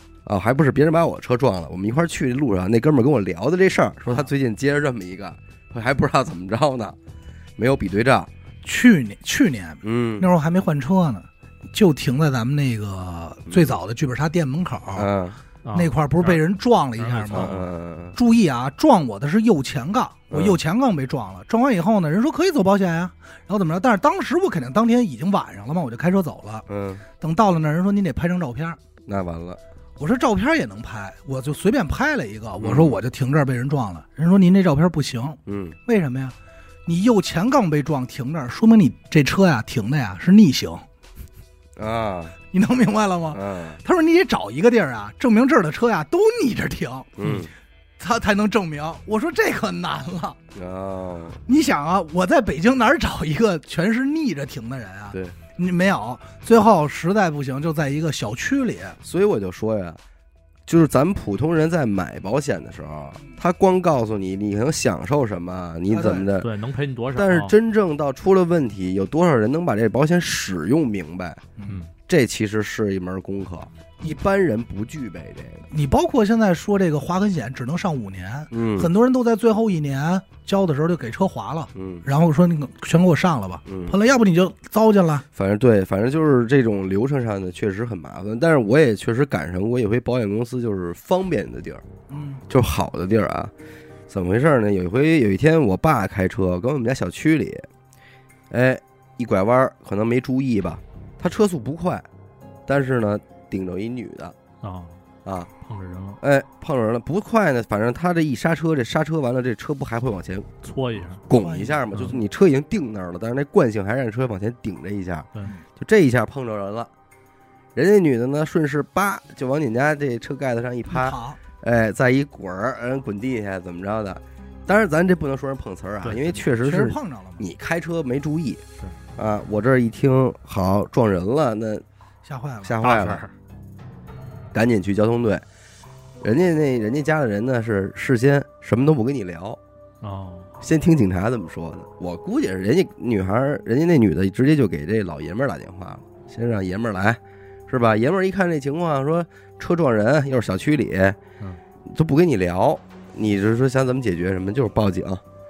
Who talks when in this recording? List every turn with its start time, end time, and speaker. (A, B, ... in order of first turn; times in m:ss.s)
0:00.2-0:07.0 A
0:07.6-0:08.3 A
0:08.6-0:15.1 B
0:09.8-0:10.3 A
0:13.5-0:13.7 A
0:15.0-0:15.4 A
0:15.6-0:16.4 C
0:15.7-0:17.6 B
0:17.0-0:17.6 C
0:17.3-0:18.2 A
0:18.1-0:26.6 B
0:20.3-0:20.6 A
0:26.7-0:27.0 A
0:27.2-0:28.8 B
0:29.1-0:29.6 A
0:30.0-0:36.3 B
0:32.6-0:33.0 A
0:35.4-0:35.8 A
0:36.8-0:40.8 B
0:41.8-0:42.4 A
0:42.5-0:47.2 B
0:43.3-0:43.8 A
0:47.2-0:47.5 A
0:48.0-0:50.4 B
0:50.5-0:51.4 A
0:51.5-0:59.0 B
0:59.0-1:00.0 A
1:00.7-1:06.5 A
1:05.9-1:06.3 B
1:06.4-1:07.5 C
1:07.1-1:11.4 A
1:12.1-1:15.7 A
1:15.7-1:25.2 B
1:18.5-1:18.9 A
1:21.7-1:22.0 A
1:23.7-1:23.9 A
1:25.3-1:31.8 A
1:32.1-1:32.4 B
1:32.5-1:33.5 A
1:34.1-1:37.7 A
1:38.5-1:42.0 A
1:42.7-1:44.4 A
1:44.6-1:45.0 C
1:45.2-1:45.5 A
1:45.6-1:46.2 C
1:46.2-1:50.6 A
1:50.6-1:51.2 C
1:51.3-1:56.9 A
1:51.3-1:51.8 B
1:51.9-1:52.2 C
1:57.7-2:08.6 A
2:00.9-2:01.4 B
2:06.0-2:06.4 C
2:06.6-2:07.5 B
2:09.2-2:11.8 A
2:12.2-2:12.8 B
2:12.6-2:13.2 A
2:12.8-2:13.3 C
2:14.5-2:15.4 A
2:16.2-2:19.6 A
2:20.0-2:20.5 C
2:20.6-2:31.2 A
2:31.8-2:35.2 A